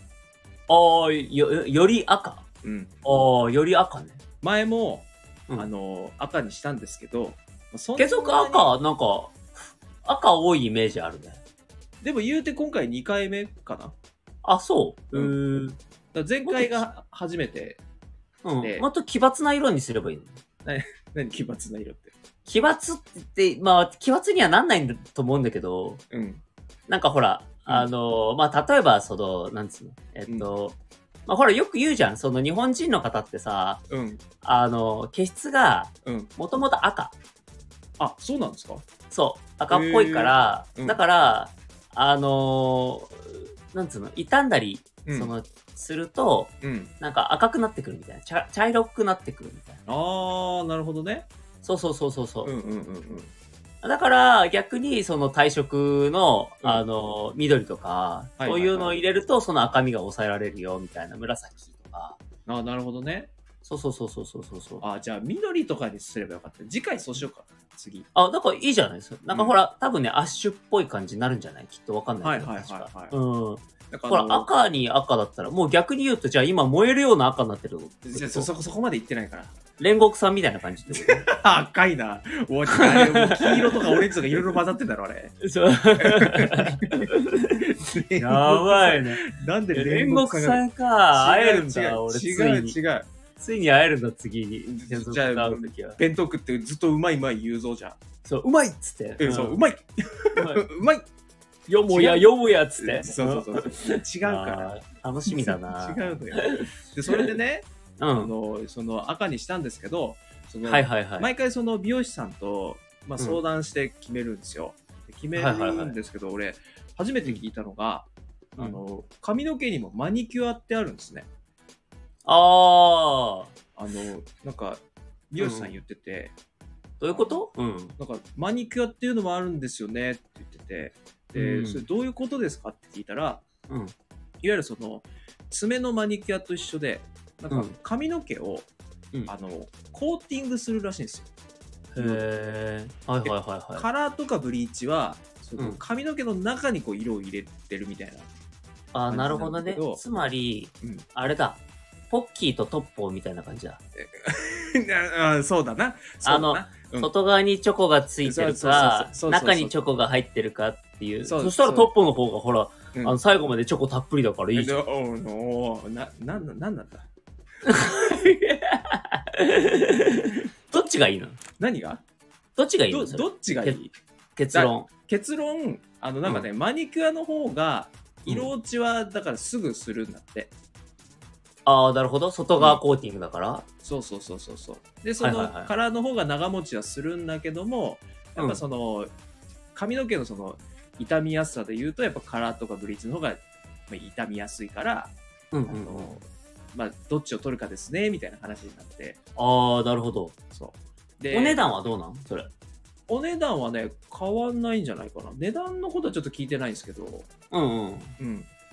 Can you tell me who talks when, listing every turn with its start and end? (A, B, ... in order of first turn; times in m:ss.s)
0:00.7-0:02.4 A
0:02.6-0:02.9 B
0:03.0-0:04.2 A
0:04.4-0:08.7 B
0:08.0-0:11.4 A
0:12.0-0:13.9 B
0:14.4-0:15.8 A
0:16.1-0:17.8 B
0:16.4-0:16.8 A
0:18.4-0:20.3 A
0:18.6-0:18.9 B
0:20.6-0:22.1 B
0:22.4-0:26.0 A
0:26.1-0:26.4 B
0:26.9-0:33.8 A
0:33.9-0:34.2 B
0:34.4-0:37.1 A
0:36.0-0:36.3 B
0:38.0-0:38.8 B
0:39.1-0:49.8 A
0:39.7-0:41.0 B
0:45.0-0:45.3 B
0:46.6-0:46.9 B
0:49.8-0:51.2 B
0:51.6-0:52.5 A
0:52.4-0:53.3 B
0:53.8-1:02.2 A
0:58.4-0:59.0 B
1:02.4-1:03.3 B
1:03.6-1:04.8 A
1:04.8-1:08.0 B
1:08.1-1:18.5 A
1:12.2-1:13.1 B
1:13.9-1:14.5 B
1:18.0-1:19.5 B
1:19.8-1:21.2 A
1:20.9-1:25.4 B
1:22.7-1:23.6 A
1:25.4-1:27.5 A
1:26.0-1:27.1 B
1:27.6-1:33.1 B
1:28.2-1:29.2 A
1:29.7-1:32.8 A
1:33.4-1:36.0 A
1:34.6-1:38.0 B
1:38.2-1:39.6 A
1:39.2-1:41.0 B
1:40.3-1:40.6 A
1:41.7-1:46.6 A
1:41.9-1:42.3 B
1:42.8-1:44.7 B
1:45.2-2:01.3 B
1:48.0-1:48.3 A
1:50.6-1:51.3 A
1:55.3-1:56.0 A
2:02.2-2:03.5 A
2:03.8-2:06.3 B
2:05.4-2:05.7 A
2:07.0-2:07.9 A
2:07.1-2:07.4 B
2:08.0-2:13.4 B
2:11.3-2:11.8 A
2:14.4-2:18.7 B
2:19.3-2:21.3 B
2:21.9-2:23.8 A
2:22.0-2:22.2 B
2:23.2-2:28.3 B
2:28.9-2:33.8 A
2:29.1-2:30.0 B
2:34.0-2:37.1 B
2:36.2-2:44.7 A
2:38.2-2:39.8 B
2:41.2-2:41.9 B
2:44.5-2:47.0 B
2:47.6-2:51.4 A
2:51.6-2:52.0 B
2:52.6-2:53.8 A
2:52.9-2:53.9 B
2:54.4-2:54.9 A
2:54.5-3:00.5 B
3:01.6-3:03.6 A
3:02.6-3:02.8 B
3:03.8-3:09.1 B
3:05.2-3:05.7 A
3:09.7-3:15.1 B
3:15.5-3:16.2 A
3:15.7-3:19.2 B
3:19.4-3:20.4 A
3:20.5-3:21.7 B
3:21.3-3:22.5 A
3:23.1-3:27.3 B
3:27.5-3:28.2 A
3:28.2-3:28.5 B